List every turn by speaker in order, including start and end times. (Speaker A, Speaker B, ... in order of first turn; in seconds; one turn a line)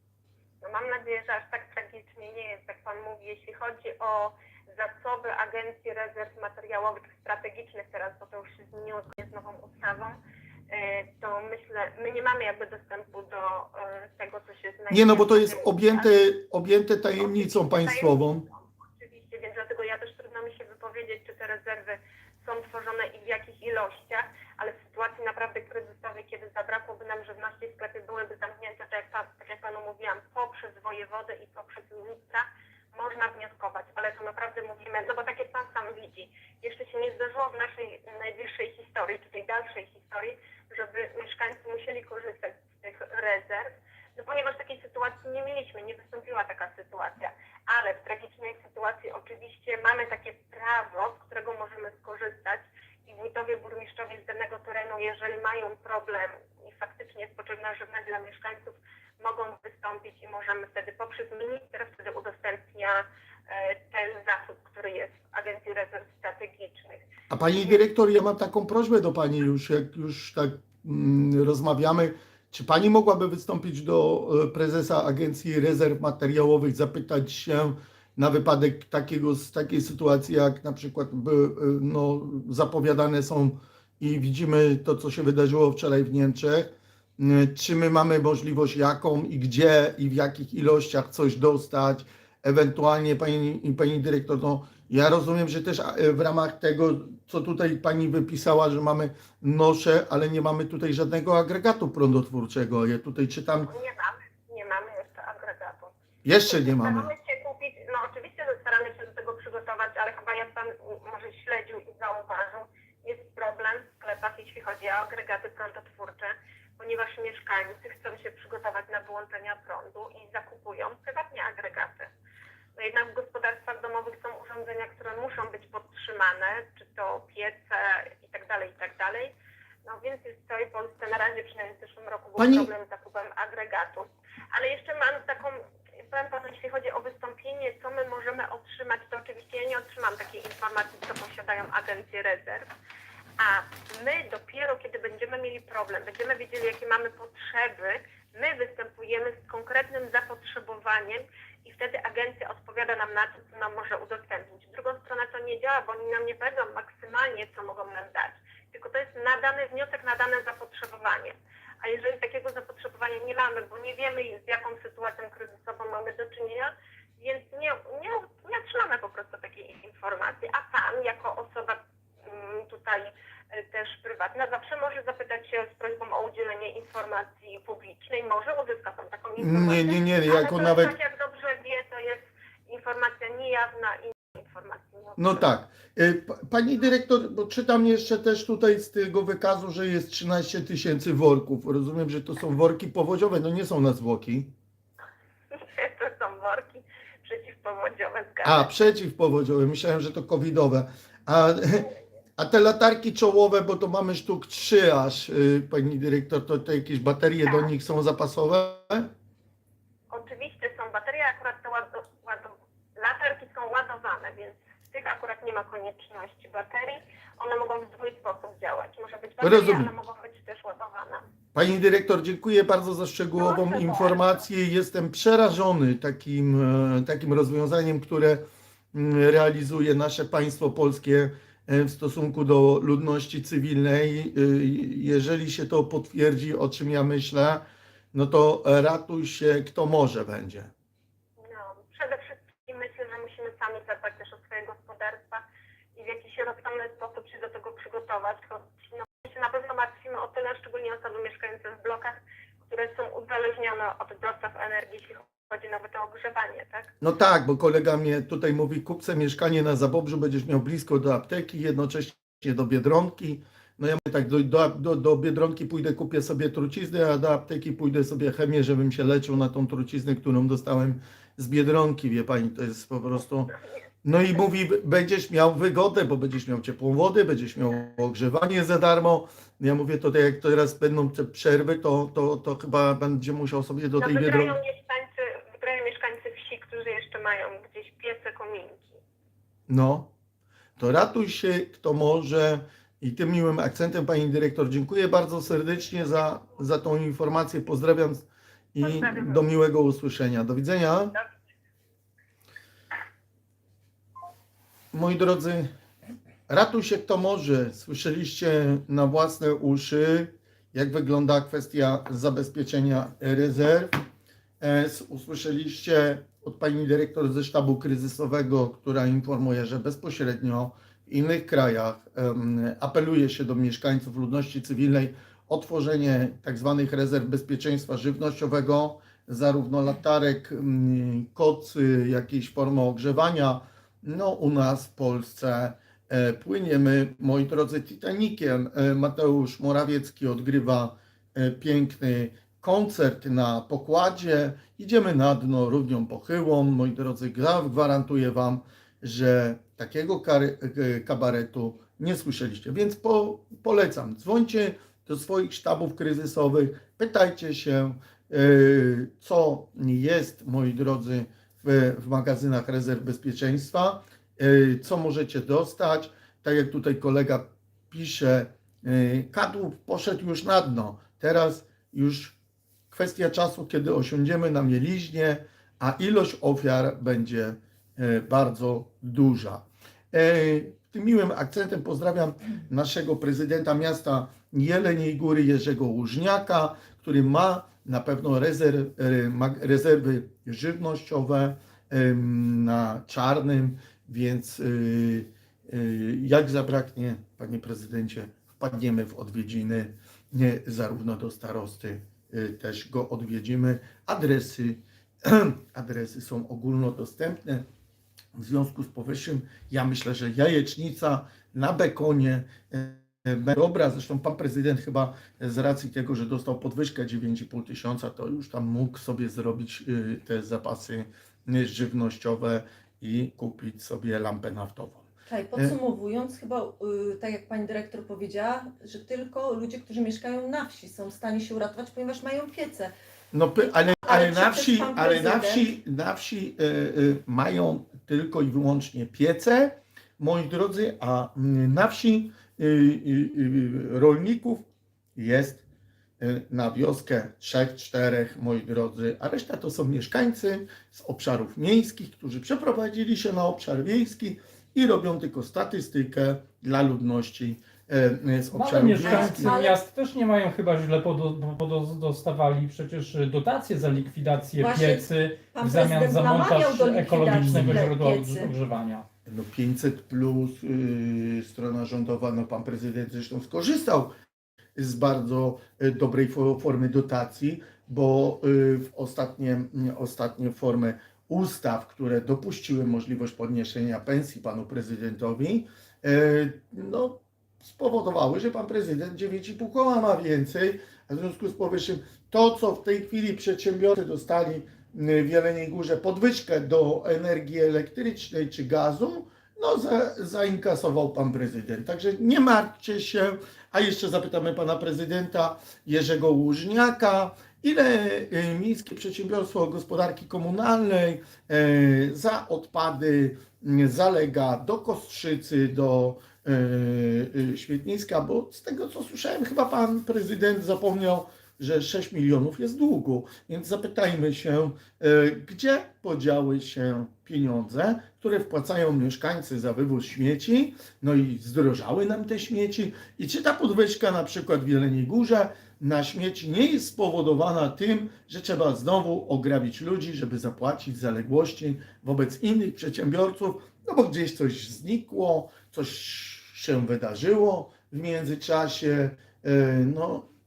Speaker A: 0.6-10.2
Speaker A: 10.7-16.1
Speaker B: 14.9-18.4
Speaker A: 17.2-67.0
Speaker B: 67.3-103.7
Speaker A: 103.7-105.9
Speaker B: 106.2-107.1
Speaker A: 106.5-122.1
Speaker A: 122.8-129.3
Speaker A: 129.8-142.7
Speaker B: 132.4-132.7
Speaker A: 143.4-185.4
Speaker B: 179.4-180.9
Speaker B: 185.2-194.5
Speaker A: 195.5-198.7
Speaker B: 198.4-209.1
Speaker A: 210.1-221.2
Speaker B: 219.4-219.9
Speaker B: 221.5-240.7
Speaker A: 223.4-224.4
Speaker A: 241.4-245.4
Speaker A: 245.9-256.9
Speaker B: 257.0-284.5
Speaker A: 284.0-289.0
Speaker B: 289.7-290.1
Speaker B: 290.8-301.1
Speaker A: 298.8-299.4
Speaker B: 304.9-305.7
Speaker B: 306.5-313.9
Speaker B: 314.6-372.4
Speaker B: 372.9-407.6
Speaker B: 408.3-425.8
Speaker C: 425.3-432.9
Speaker B: 433.3-444.6
Speaker C: 433.6-435.6
Speaker B: 445.1-445.6
Speaker B: 446.2-459.6
Speaker D: 458.5-469.1
Speaker C: 459.0-459.8
Speaker C: 464.6-468.5
Speaker B: 469.2-474.1
Speaker B: 474.8-550.3